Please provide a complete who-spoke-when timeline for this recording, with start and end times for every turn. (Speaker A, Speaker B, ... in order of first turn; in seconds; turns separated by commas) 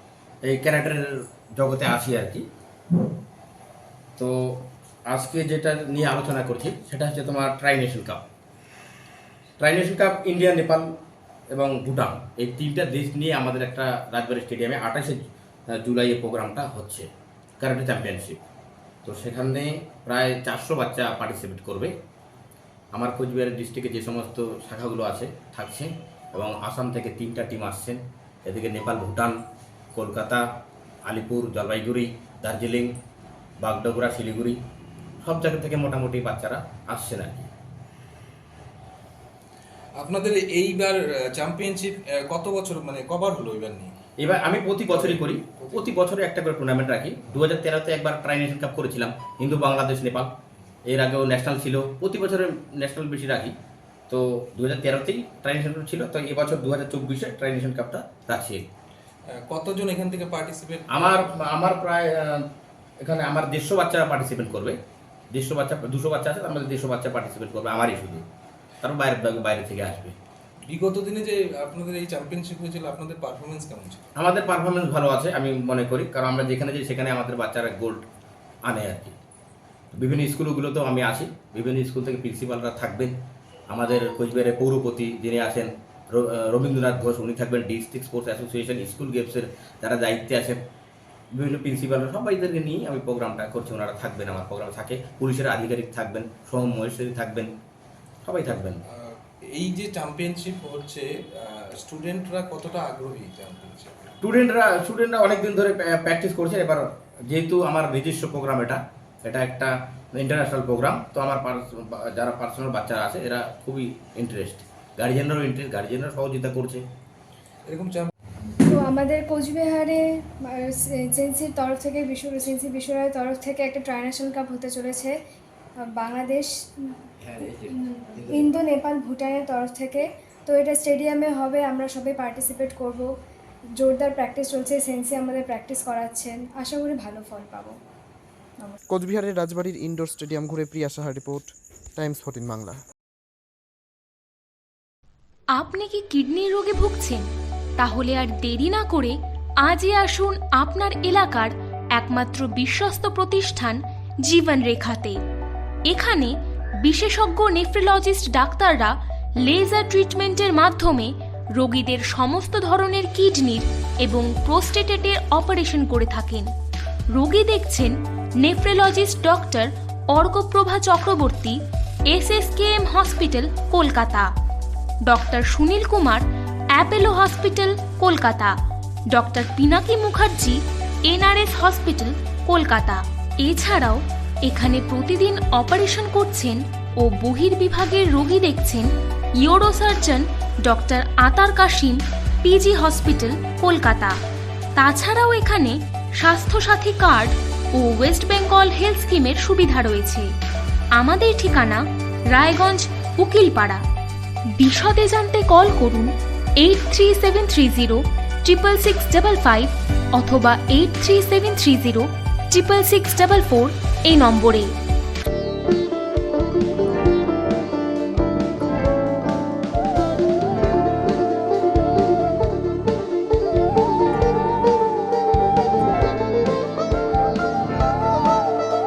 Speaker A: 0.4-2.4, Speaker A: 4.2-8.2, Speaker A: 9.6-10.9, Speaker A: 11.5-17.1, Speaker A: 17.6-18.4, Speaker A: 19.0-21.9, Speaker A: 22.9-29.4, Speaker A: 29.9-30.4, Speaker A: 31.0-32.9, Speaker A: 33.6-34.6, Speaker A: 35.2-37.5, Speaker B: 40.0-43.9, Speaker A: 44.2-50.3, Speaker B: 44.9-46.0, Speaker A: 50.9-53.5, Speaker A: 54.1-58.7, Speaker B: 59.3-61.4, Speaker A: 60.9-62.4, Speaker A: 63.0-64.8, Speaker A: 65.3-68.2, Speaker A: 68.8-70.2, Speaker B: 70.7-74.0, Speaker A: 74.2-78.0, Speaker A: 78.6-79.1, Speaker A: 79.9-83.1, Speaker A: 83.7-90.6, Speaker A: 91.3-97.5, Speaker A: 98.2-98.8, Speaker B: 98.9-104.1, Speaker A: 104.2-116.8, Speaker B: 117.7-118.1, Speaker C: 118.7-120.0, Speaker C: 120.6-125.1, Speaker C: 126.0-126.5, Speaker B: 127.2-128.7, Speaker C: 127.7-133.1, Speaker C: 133.8-137.8, Speaker D: 138.9-142.8, Speaker E: 145.5-147.2, Speaker E: 147.8-155.2, Speaker E: 155.9-166.5, Speaker E: 167.1-171.6, Speaker E: 172.1-174.3, Speaker E: 175.1-178.5, Speaker E: 179.1-188.9, Speaker E: 189.4-194.2, Speaker E: 194.8-200.3, Speaker E: 200.9-203.8, Speaker E: 204.6-214.8